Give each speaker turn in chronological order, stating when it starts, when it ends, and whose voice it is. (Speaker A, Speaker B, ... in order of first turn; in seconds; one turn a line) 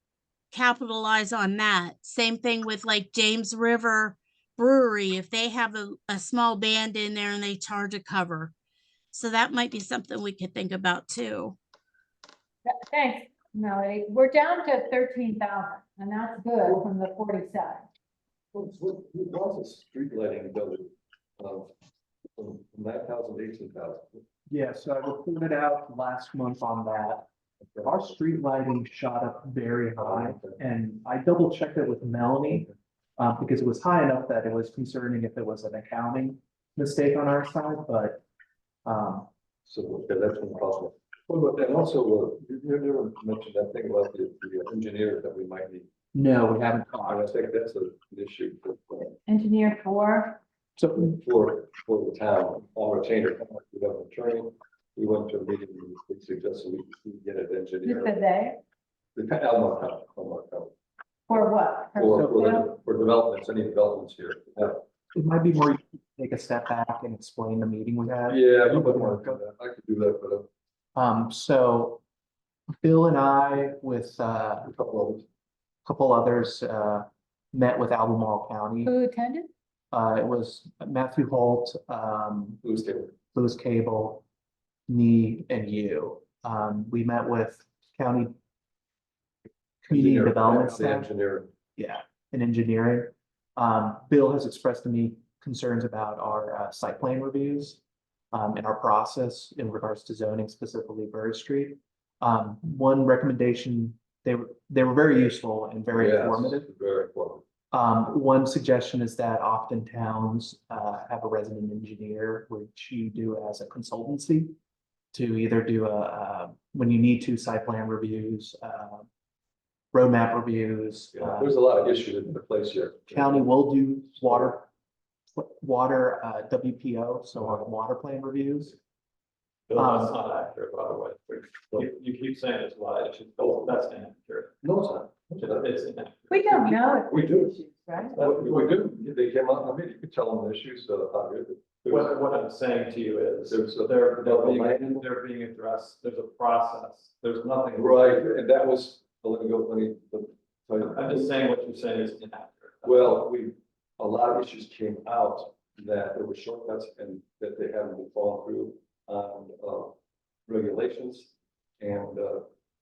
Speaker A: 0.5-8.5
Speaker A: 9.1-11.6
Speaker B: 12.7-17.9
Speaker C: 18.5-21.7
Speaker C: 22.4-24.2
Speaker D: 24.5-27.3
Speaker C: 27.7-27.9
Speaker D: 27.8-38.2
Speaker C: 30.0-30.6
Speaker D: 38.9-39.3
Speaker C: 39.7-45.9
Speaker D: 46.1-47.3
Speaker C: 47.1-49.1
Speaker B: 49.3-50.4
Speaker D: 50.8-51.2
Speaker C: 51.0-58.1
Speaker B: 57.8-58.6
Speaker C: 59.2-60.7
Speaker B: 61.3-62.7
Speaker C: 62.0-64.8
Speaker D: 62.1-62.5
Speaker D: 65.1-69.4
Speaker C: 68.3-70.5
Speaker D: 71.0-72.0
Speaker D: 72.8-74.7
Speaker C: 74.6-75.2
Speaker D: 75.8-78.9
Speaker B: 78.8-79.5
Speaker D: 79.9-82.6
Speaker C: 82.6-83.2
Speaker D: 83.3-84.2
Speaker D: 84.9-88.3
Speaker D: 89.8-91.1
Speaker C: 89.9-91.5
Speaker D: 91.8-97.8
Speaker D: 98.3-106.7
Speaker C: 105.9-107.4
Speaker D: 107.7-114.5
Speaker D: 115.1-119.1
Speaker D: 119.9-121.5
Speaker C: 121.1-123.5
Speaker D: 123.1-124.7
Speaker D: 125.3-128.8
Speaker E: 129.7-134.7
Speaker D: 129.8-130.2
Speaker C: 134.6-135.7
Speaker E: 135.3-136.8
Speaker B: 136.3-138.2
Speaker C: 137.1-137.6
Speaker C: 138.1-142.2
Speaker E: 138.1-138.7
Speaker E: 141.8-148.0
Speaker C: 143.5-145.1
Speaker C: 147.7-151.4
Speaker E: 150.8-153.2
Speaker C: 152.8-159.9
Speaker C: 160.5-162.5